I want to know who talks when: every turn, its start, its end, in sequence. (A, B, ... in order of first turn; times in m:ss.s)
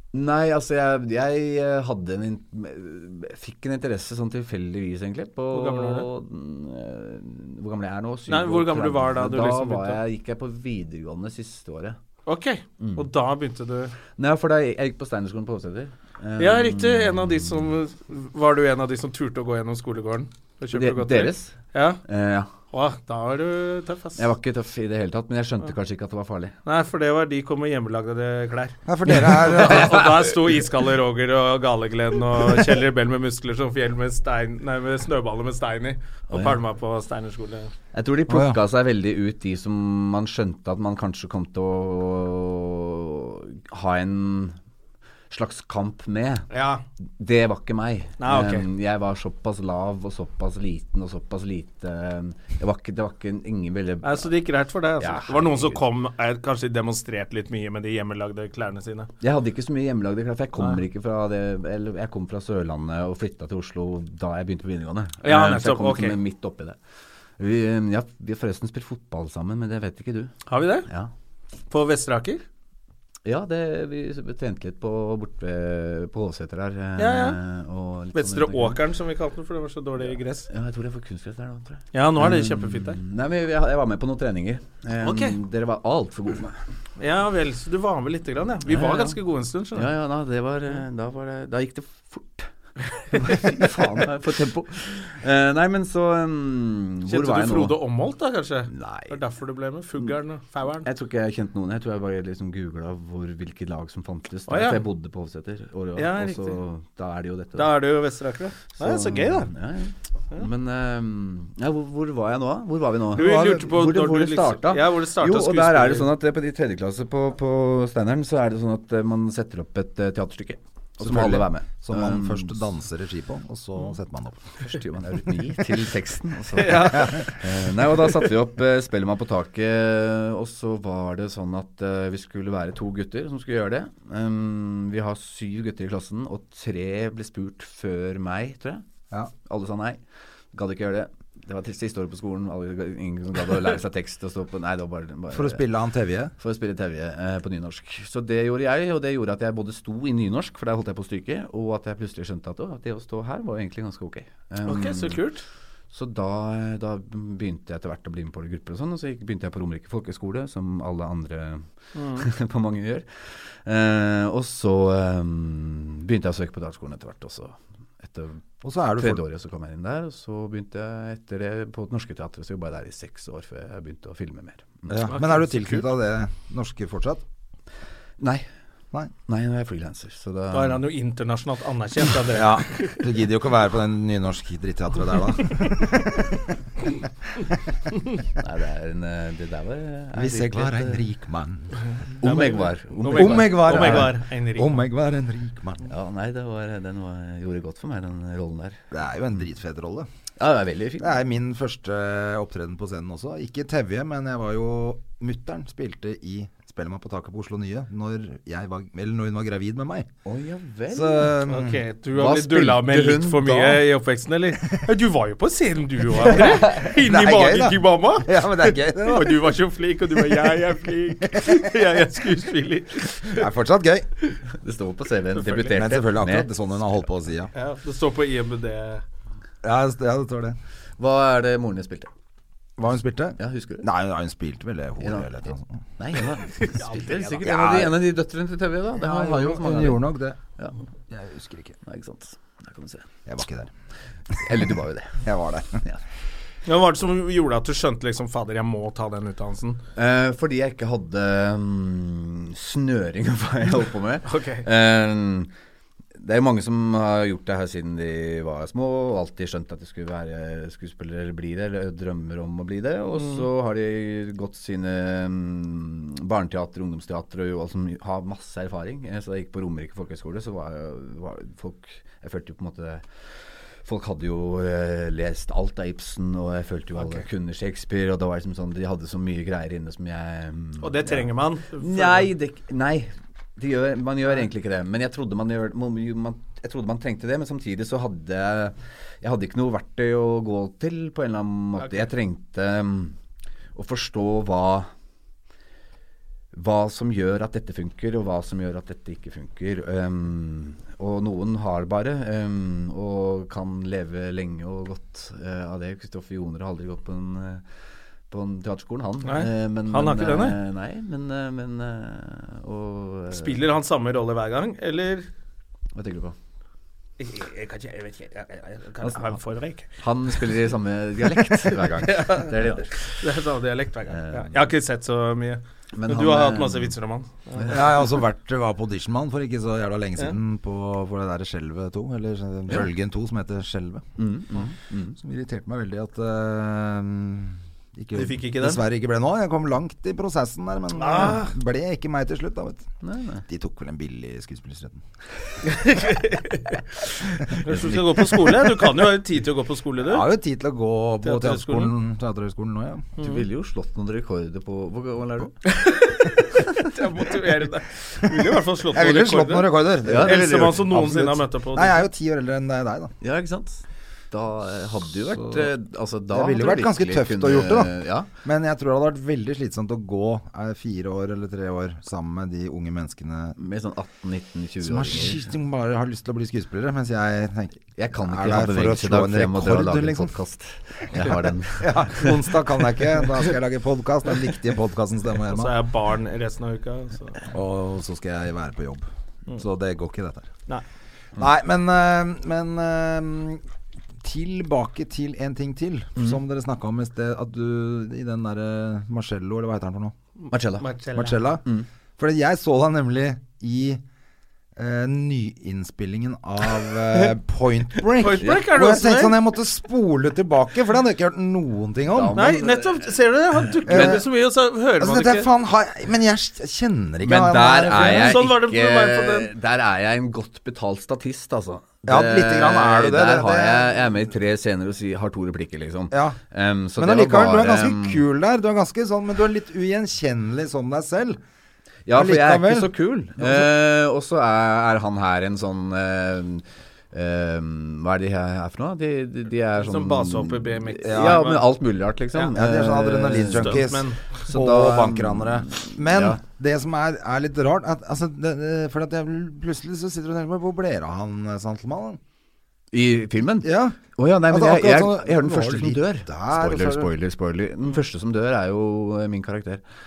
0:00.1-0:12.0 A
0:05.5-0:06.1 B
0:08.3-0:10.0 B
0:12.2-0:13.9 B
0:12.8-0:13.1 A
0:14.2-0:17.6 A
0:16.4-0:22.0 B
0:20.7-0:22.5 A
0:22.7-0:24.2 B
0:24.2-0:26.5 A
0:26.6-0:37.7 B
0:28.8-0:30.2 C
0:29.6-0:30.0 A
0:36.3-0:36.6 A
0:37.9-0:44.6 A
0:38.3-0:38.6 C
0:45.3-0:46.5 A
0:46.5-0:46.8 B
0:47.2-0:54.3 A
0:48.2-0:48.6 B
0:54.0-0:59.1 B
0:55.0-0:55.8 A
0:59.2-1:06.8 A
1:05.2-1:06.2 B
1:07.4-1:10.3 A
1:10.5-1:10.9 B
1:10.8-1:11.1 A
1:11.7-1:12.4 B
1:13.2-1:18.8 A
1:17.0-1:17.4 B
1:18.1-1:20.5 B
1:20.0-1:26.6 A
1:21.9-1:23.0 B
1:25.0-1:25.4 B
1:27.0-1:29.9 B
1:28.7-1:29.2 A
1:29.7-1:32.5 A
1:33.0-1:37.8 A
1:37.1-1:40.9 B
1:38.7-1:39.2 A
1:40.8-1:47.8 A
1:44.5-1:44.8 B
1:46.0-1:46.6 B
1:47.6-1:49.5 B
1:48.8-2:02.6 A
1:53.1-1:56.1 B
2:01.0-2:04.5 C
2:04.6-2:18.8 A
2:06.6-2:07.4 B
2:19.4-2:20.0 A
2:20.5-2:25.6 A
2:25.3-2:26.3 C
2:26.4-2:35.2 A
2:34.6-2:35.4 B
2:35.9-2:48.4 A
2:41.9-2:42.3 B
2:48.6-2:49.2 C
2:48.9-2:55.1 A
2:54.9-2:57.2 C
2:55.1-2:55.8 B
2:58.2-2:58.4 A
2:59.2-3:00.8 A
3:00.5-3:03.0 B
3:02.3-3:06.4 C
3:08.4-3:11.0 A
3:10.1-3:11.8 C
3:12.1-3:14.8 B
3:12.2-3:14.1 A
3:13.1-3:15.9 C
3:15.8-3:18.8 A
3:18.9-3:20.1 C
3:20.4-3:21.1 A
3:21.0-3:30.1 C
3:30.2-3:31.4 A
3:30.9-3:31.8 C
3:31.5-3:43.4 B
3:32.1-3:33.8 A
3:36.5-3:39.6 C
3:41.3-3:41.6 C
3:43.2-3:44.1 C
3:44.5-3:46.5 A
3:45.4-3:45.8 B
3:45.7-3:47.5 C
3:47.5-3:49.0 B
3:49.6-3:50.6 C
3:51.0-3:52.1 A
3:52.8-3:55.8 C
3:53.4-3:53.9 A
3:55.0-4:00.0 A
3:56.5-3:57.5 B
3:57.4-3:57.9 C
3:58.9-4:00.4 C
4:01.1-4:01.8 C
4:01.8-4:03.1 A
4:03.2-4:03.7 C
4:04.4-4:05.2 A
4:05.2-4:05.8 C
4:06.6-4:09.8 B
4:10.0-4:15.5 A
4:14.2-4:14.6 B
4:16.2-4:33.1 A
4:23.2-4:23.4 B
4:33.8-4:53.2 A
4:40.8-4:42.3 B
4:51.8-4:52.1 B
4:53.7-4:54.9 A
4:56.5-5:07.6 A
5:08.3-5:13.6 A
5:09.2-5:10.6 B
5:13.3-5:15.3 B
5:15.9-5:16.4 A
5:17.2-5:20.5 B
5:19.0-5:19.4 A
5:20.0-5:23.1 A
5:21.3-5:27.9 B
5:24.1-5:24.6 A
5:25.9-5:26.9 A
5:27.7-5:34.0 C
5:34.2-5:35.2 A
5:35.2-5:42.9 C
5:38.1-5:38.8 B
5:41.0-5:41.5 B
5:43.0-5:43.4 A
5:43.5-5:45.0 C
5:45.6-5:46.8 B
5:47.4-5:50.3 B
5:50.0-5:53.1 C
5:51.2-5:51.9 B
5:53.2-5:55.6 A
5:53.2-5:53.4 B
5:55.6-6:02.0 B
5:58.9-6:03.1 C
6:00.0-6:00.9 A
6:03.2-6:08.3 A
6:05.3-6:05.7 C
6:06.3-6:13.6 C
6:13.6-6:15.4 A
6:14.8-6:20.3 C
6:17.9-6:22.5 A
6:21.1-6:25.7 C
6:25.5-6:27.5 B
6:27.5-6:30.5 C
6:31.4-6:33.6 C
6:34.2-6:40.1 C
6:40.5-6:40.9 A
6:40.8-6:41.5 B
6:41.1-6:41.6 C
6:42.2-6:44.0 C
6:44.8-6:52.4 C
6:48.2-6:49.4 B
6:52.1-6:53.1 A
6:52.3-6:55.5 B
6:53.6-6:54.2 A
6:53.8-6:54.2 C
6:55.0-6:58.4 C
6:57.2-7:08.2 A
6:57.9-6:59.5 B
7:02.0-7:04.0 C
7:06.1-7:06.4 C
7:07.0-7:11.4 C
7:12.0-7:23.8 A
7:12.1-7:13.7 C
7:19.8-7:21.7 B
7:21.0-7:21.5 C
7:22.5-7:32.2 C
7:23.5-7:24.3 B
7:24.4-7:26.4 A
7:32.9-7:39.8 A
7:33.6-7:37.1 C